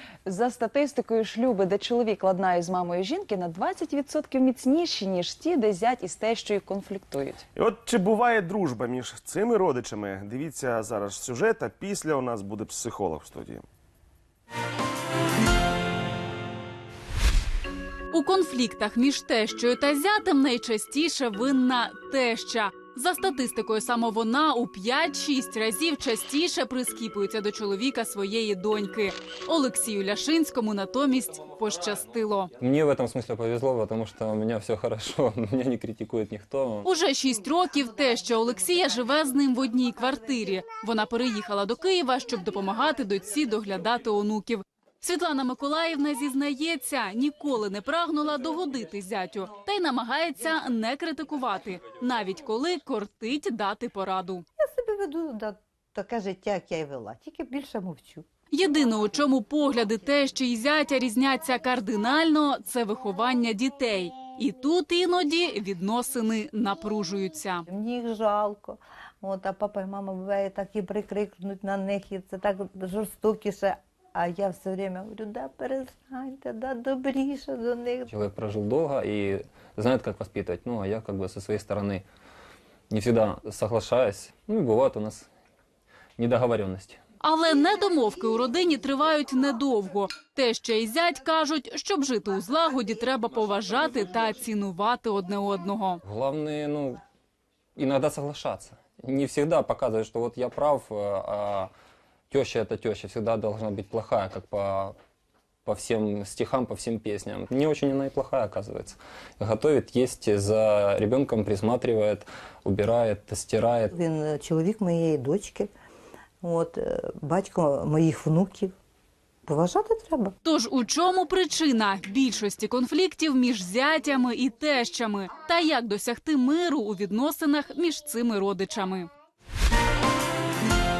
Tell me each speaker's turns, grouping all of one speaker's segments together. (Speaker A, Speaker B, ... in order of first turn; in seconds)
Speaker A: 0.2-7.4
Speaker B: 7.5-13.6
Speaker C: 18.1-32.5, 36.8-54.4, 58.5-67.7, 87.2-96.0, 120.4-129.1
Speaker D: 32.6-36.9, 78.1-82.0, 82.9-85.3, 86.2-87.0, 96.0-97.0, 97.8-101.7, 102.3-104.9, 105.7-113.9
Speaker E: 54.6-58.2, 67.7-78.1, 113.9-115.7, 116.4-118.7, 119.5-120.3